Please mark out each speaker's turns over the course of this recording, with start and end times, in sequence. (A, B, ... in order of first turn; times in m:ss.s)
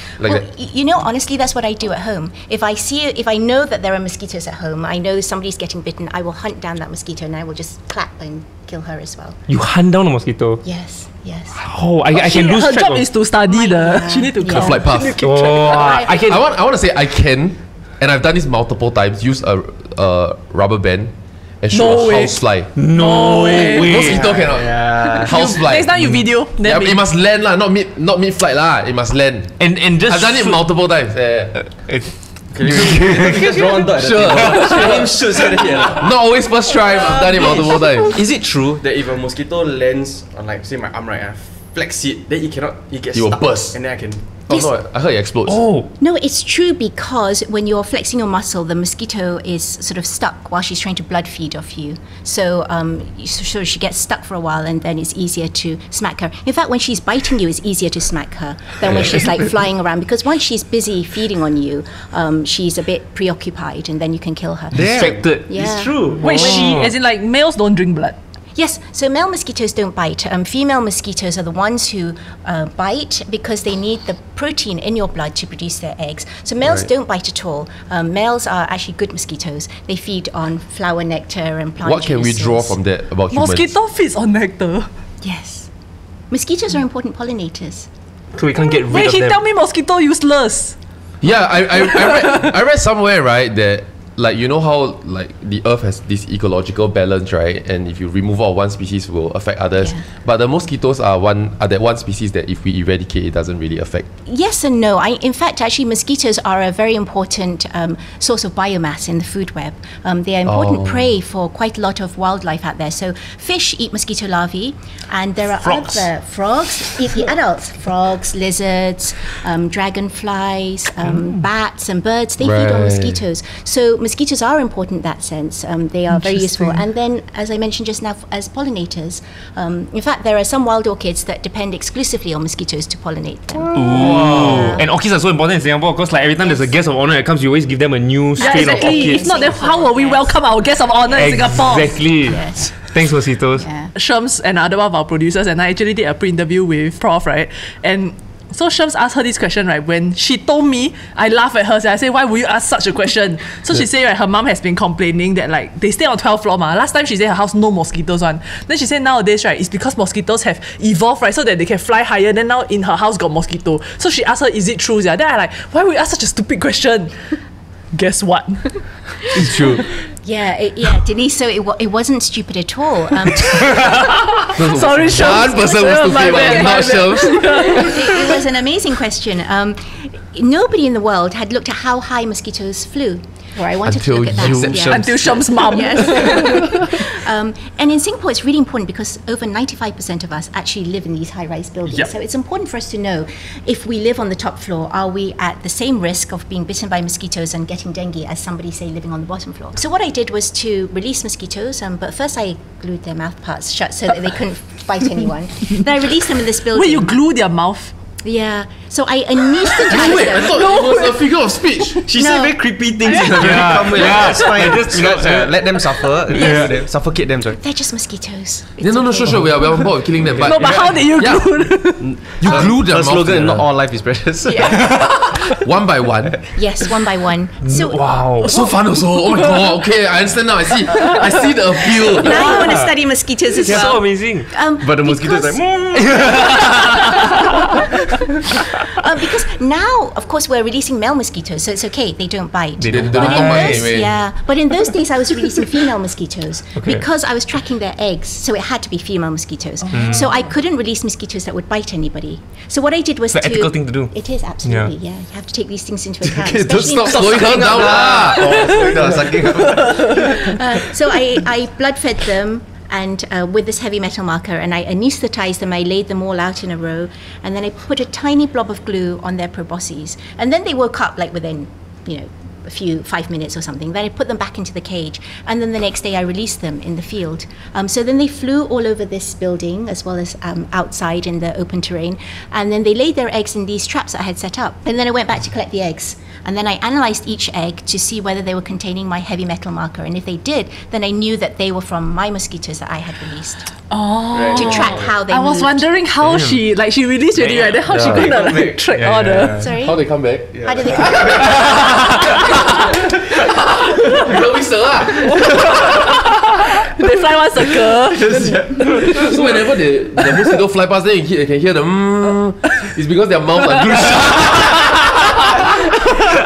0:00.2-0:00.4 A
0:00.2-0:09.4 B
0:09.5-0:10.6 C
0:10.6-0:11.6 B
0:11.5-0:13.1 C
0:12.1-0:16.0 D
0:13.4-0:14.9 B
0:14.5-0:15.2 A
0:15.2-0:16.4 C
0:15.6-0:16.3 B
0:16.0-0:22.7 A
0:21.7-0:24.2 D
0:22.7-0:24.2 C
0:23.7-0:31.9 A
0:24.0-0:25.6 E
0:25.2-0:27.0 D
0:29.6-0:30.7 C
0:31.5-0:35.1 C
0:32.5-0:36.1 E
0:32.6-0:38.2 A
0:37.4-0:44.2 E
0:43.1-0:45.6 A
0:45.4-0:45.9 C
0:46.0-1:06.4 B
1:04.7-1:05.2 E
1:04.8-1:06.9 C
1:06.2-1:08.2 D
1:08.5-1:22.8 B
1:21.8-1:23.7 A
1:23.3-1:24.9 D
1:25.2-1:25.7 B
1:26.3-1:27.9 B
1:28.3-1:29.4 C
1:28.9-1:30.8 D
1:31.2-1:44.1 A
1:39.8-1:40.0 B
1:44.2-2:14.9 B
1:50.4-1:51.1 A
2:02.4-2:03.2 A
2:06.2-2:06.8 D
2:13.6-2:14.2 E
2:13.7-2:19.3 C
2:14.0-2:14.7 A
2:16.4-2:16.7 B
2:18.4-2:22.2 D
2:18.4-2:22.8 B
2:21.1-2:23.7 C
2:23.6-2:23.9 B
2:23.9-2:47.1 D
2:47.9-2:49.6 D
2:49.3-2:49.8 A
2:50.1-2:54.1 B
2:54.4-2:58.4 D
2:54.5-2:58.0 A
2:56.0-3:27.2 B
3:03.8-3:05.3 A
3:04.4-3:05.5 E
3:04.7-3:07.0 D
3:26.7-3:27.9 D
3:28.2-3:30.6 B
3:29.8-3:31.3 D
3:29.9-3:32.0 A
3:32.0-3:37.6 E
3:32.2-3:32.6 B
3:33.3-3:35.6 C
3:36.3-3:36.7 C
3:36.3-3:36.7 B
3:37.6-3:39.5 B
3:38.8-3:43.7 A
3:39.2-3:39.6 C
3:40.2-3:41.0 C
3:40.4-3:42.1 D
3:42.0-3:45.0 E
3:44.5-3:45.0 B
3:44.8-3:46.4 A
3:46.5-3:48.5 B
3:47.6-3:48.5 C
3:48.4-3:52.7 A
3:52.1-3:57.4 B
3:52.2-3:53.0 C
3:53.6-3:53.9 E
3:53.6-3:54.5 C
3:54.8-3:56.8 E
3:56.0-3:57.3 C
3:56.0-3:56.3 A
3:58.8-4:18.3 B
4:02.8-4:04.0 C
4:02.9-4:04.2 A
4:06.8-4:07.0 C
4:09.9-4:10.2 D
4:09.9-4:10.3 C
4:13.3-4:14.1 C
4:14.6-4:14.9 C
4:16.2-4:20.8 E
4:16.8-4:19.6 A
4:18.5-4:18.8 D
4:19.6-4:20.4 D
4:20.1-4:53.7 B
4:53.9-4:59.6 D
4:54.3-4:55.2 E
4:54.5-4:55.9 B
4:56.2-4:56.6 C
4:57.4-4:57.9 C
4:57.9-4:58.3 A
4:58.0-4:59.7 E
4:58.9-4:59.5 C
4:59.5-5:02.4 B
4:59.7-5:01.9 A
5:00.5-5:01.7 E
5:04.0-5:06.1 A
5:05.4-5:06.1 D
5:06.8-5:09.3 D
5:08.1-5:09.5 E
5:09.1-5:15.6 A
5:10.2-5:10.4 E